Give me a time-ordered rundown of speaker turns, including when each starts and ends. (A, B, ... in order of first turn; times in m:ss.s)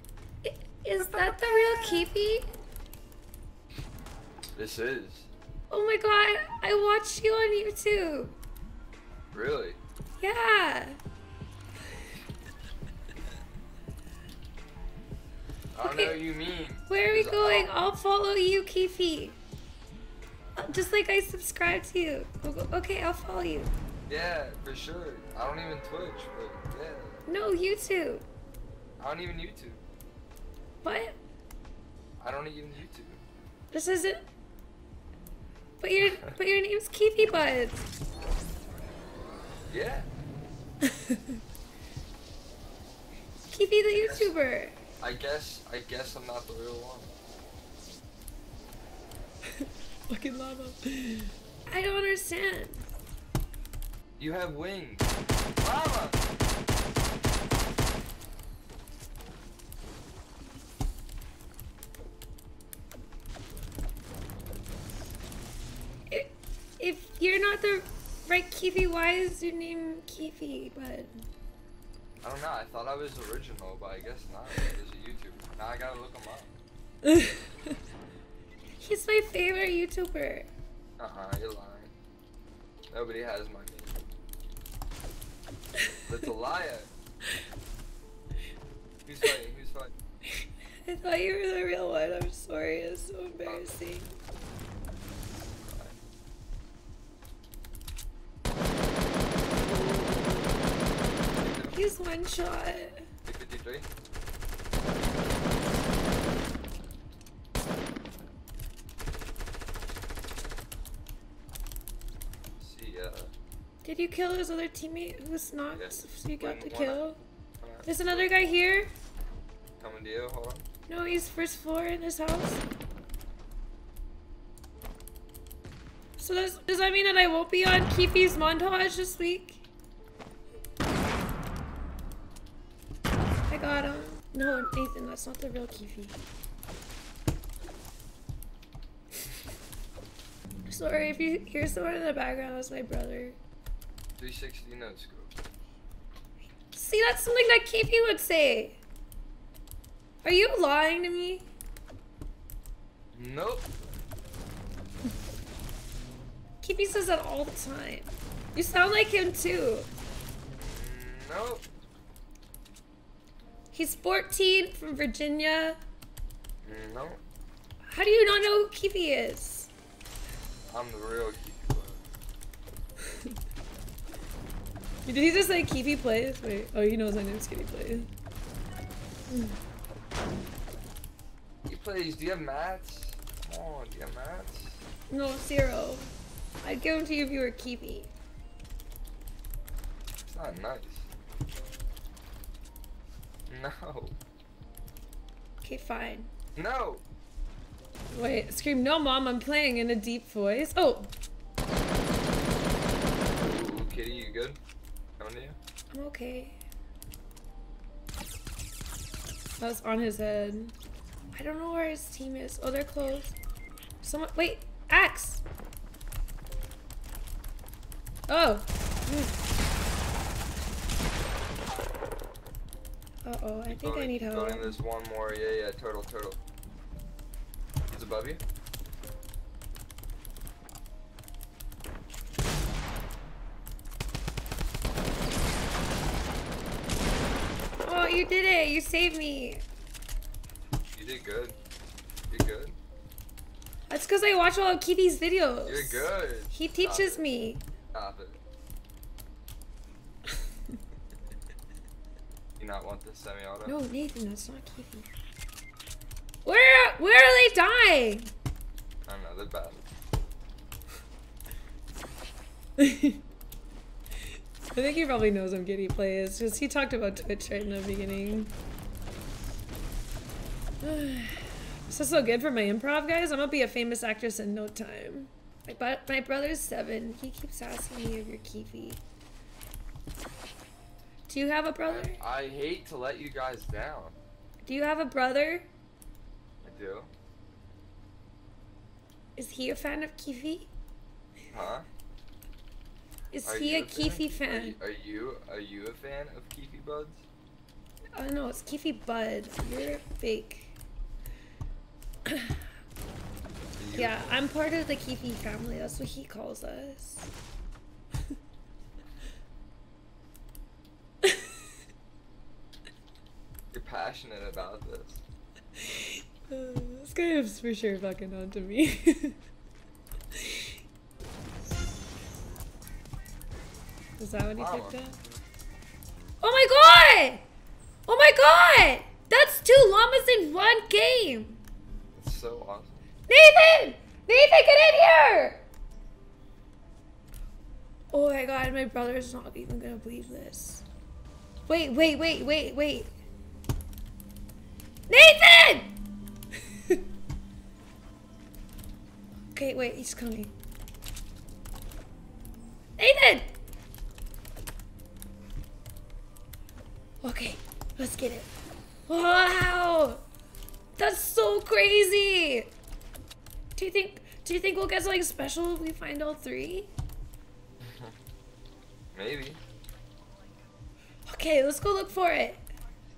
0:00.4-0:02.5 A
0:04.6-0:05.3 B
0:05.7-0:08.4 A
0:09.3-0:09.8 B
0:10.2-0:11.0 A
0:15.7-0:17.8 B
0:15.8-0:16.2 A
0:16.9-0:19.4 A
0:20.6-0:23.7 A
0:24.1-0:27.2 B
0:27.3-0:28.3 A
0:29.0-0:29.8 B
0:30.8-0:31.2 A
0:32.2-0:33.2 B
0:33.7-0:34.2 A
0:35.8-0:37.8 A
0:39.7-0:40.1 B
0:40.8-0:41.4 A
0:43.5-0:44.8 A
0:44.0-0:44.3 B
0:45.0-0:47.1 B
0:49.6-0:52.9 A
0:54.2-0:55.1 B
0:55.6-0:56.3 B
1:06.1-1:11.2 A
1:12.2-1:16.6 B
1:17.0-1:17.7 A
1:18.8-1:20.5 A
1:21.0-1:21.9 B
1:22.9-1:24.0 B
1:26.1-1:26.9 B
1:29.1-1:29.9 B
1:30.4-1:34.1 A
1:33.4-1:33.8 B
1:35.7-1:36.0 B
1:39.7-1:40.5 B
1:41.4-1:41.8 B
1:41.7-1:43.1 A
1:43.2-1:43.9 B
1:52.6-1:53.3 B
1:53.8-1:57.2 A
1:55.7-1:58.5 B
1:57.8-1:58.9 A
1:59.8-2:00.7 B
2:00.9-2:02.6 A
2:06.2-2:09.7 A
2:13.5-2:16.2 A
2:20.7-2:23.4 A
2:24.2-2:25.4 B
2:26.7-2:28.8 A
2:30.2-2:31.5 A
2:33.1-2:34.0 B
2:36.6-2:39.9 A
2:40.6-2:41.7 B
2:43.7-2:45.8 A
2:46.6-2:47.2 B
2:47.9-2:49.7 A
2:50.7-2:52.0 B
2:53.1-2:53.3 A
2:55.1-2:58.1 A
2:59.3-2:59.6 A
3:01.6-3:04.8 B
3:05.1-3:08.1 A
3:10.2-3:11.1 B
3:13.5-3:14.2 B
3:15.6-3:16.3 A
3:16.6-3:17.0 B
3:18.1-3:21.1 A
3:23.3-3:24.6 B
3:25.2-3:25.6 B
3:25.9-3:26.6 A
3:29.6-3:30.8 A
3:31.3-3:33.4 A
3:34.0-3:35.4 A
3:38.3-3:39.4 A
3:43.2-3:44.8 A
3:43.7-3:46.4 B
3:47.9-3:48.4 B
3:57.8-3:59.6 A
4:00.9-4:01.6 B
4:02.3-4:02.8 B
4:03.9-4:07.6 A
4:05.7-4:07.2 B
4:07.9-4:08.4 B
4:12.6-4:13.8 B
4:13.7-4:15.1 A
4:16.4-4:18.3 A
4:19.1-4:19.9 B
4:22.8-4:23.2 A
4:24.7-4:28.5 A
4:30.8-4:39.0 A
4:41.3-4:42.2 A
4:41.8-4:44.2 B
4:44.6-4:45.7 A
4:46.6-4:47.1 B
4:49.4-4:50.7 A
4:51.5-4:51.9 B
4:53.3-4:54.8 A
4:53.4-4:57.2 B
4:58.2-5:00.8 A
5:02.3-5:02.6 A
5:03.8-5:04.4 B
5:04.0-5:07.3 A
5:11.2-5:11.6 A
5:13.7-5:15.2 B
5:15.8-5:19.4 A
5:20.4-5:20.8 A
5:24.2-5:25.2 A
5:24.6-5:25.0 B
5:26.4-5:27.4 A
5:28.1-5:31.6 A
5:32.1-5:33.0 B
5:33.3-5:35.6 A
5:38.1-5:40.8 A
5:41.7-5:43.1 A
5:45.1-5:45.9 A
5:49.5-5:50.5 A
5:53.0-5:53.5 A
5:57.2-5:58.5 A
5:59.1-6:00.2 A
6:01.0-6:02.7 A
6:03.8-6:06.9 A
6:07.8-6:08.1 B
6:09.1-6:09.6 B
6:11.3-6:12.6 A